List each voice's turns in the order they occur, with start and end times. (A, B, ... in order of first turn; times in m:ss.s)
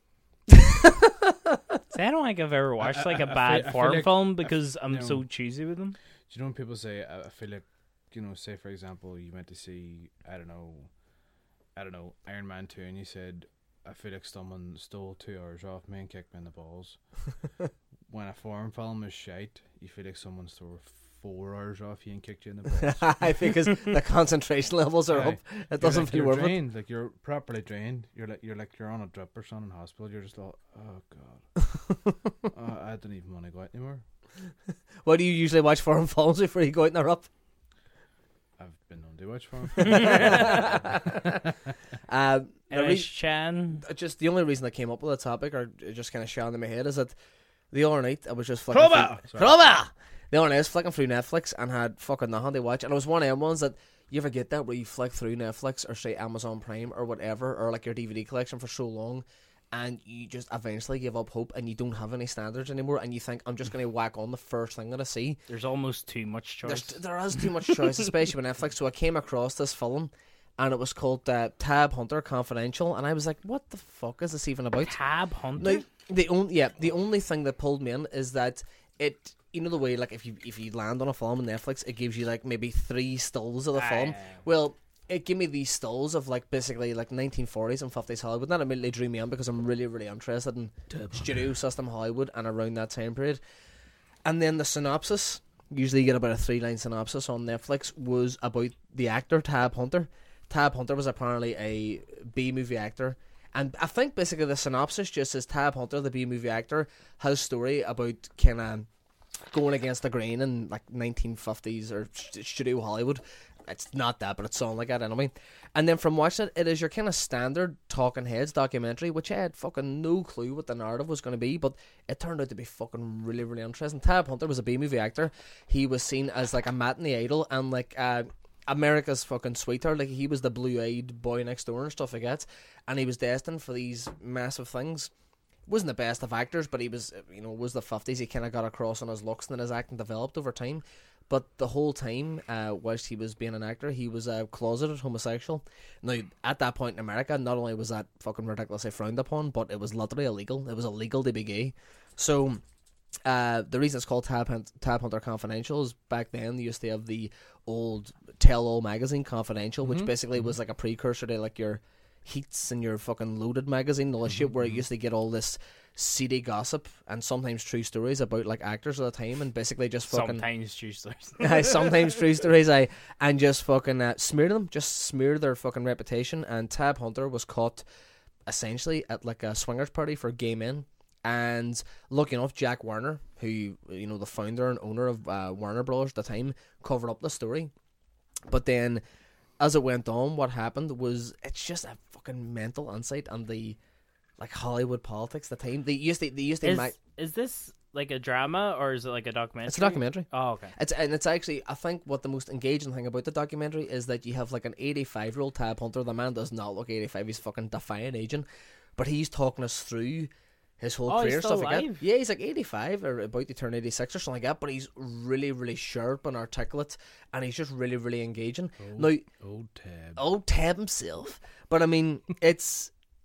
0:00.5-0:01.6 A
0:01.9-0:06.0 B
0:02.8-0:05.2 C
0:06.3-0:10.9 C
0:11.8-0:17.0 C
0:18.1-0:23.3 C
0:22.8-0:26.6 A
0:25.1-0:31.7 C
0:32.5-0:34.0 C
0:35.0-0:37.3 A
0:38.6-0:41.5 C
0:39.8-0:41.4 A
0:39.8-0:40.2 B
0:42.1-0:43.1 A
0:42.7-0:43.8 B
0:43.8-0:47.2 A
0:47.7-1:05.4 A
0:48.7-0:49.5 C
1:05.5-1:07.7 B
1:06.6-1:15.0 A
1:14.8-1:15.8 B
1:15.6-1:33.4 A
1:23.7-1:24.4 B
1:34.2-1:48.9 A
1:49.5-2:15.1 A
2:15.7-2:32.6 A
2:33.2-2:50.5 A
2:39.8-2:40.5 C
2:44.3-2:44.8 C
2:50.1-2:52.1 B
2:51.4-2:57.8 A
2:58.5-3:07.7 A
3:08.5-3:09.0 A
3:09.6-3:13.8 A
3:14.4-3:17.0 A
3:16.6-3:20.8 B
3:19.7-3:39.3 A
3:31.1-3:32.0 B
3:38.8-3:40.2 C
3:40.2-3:42.9 A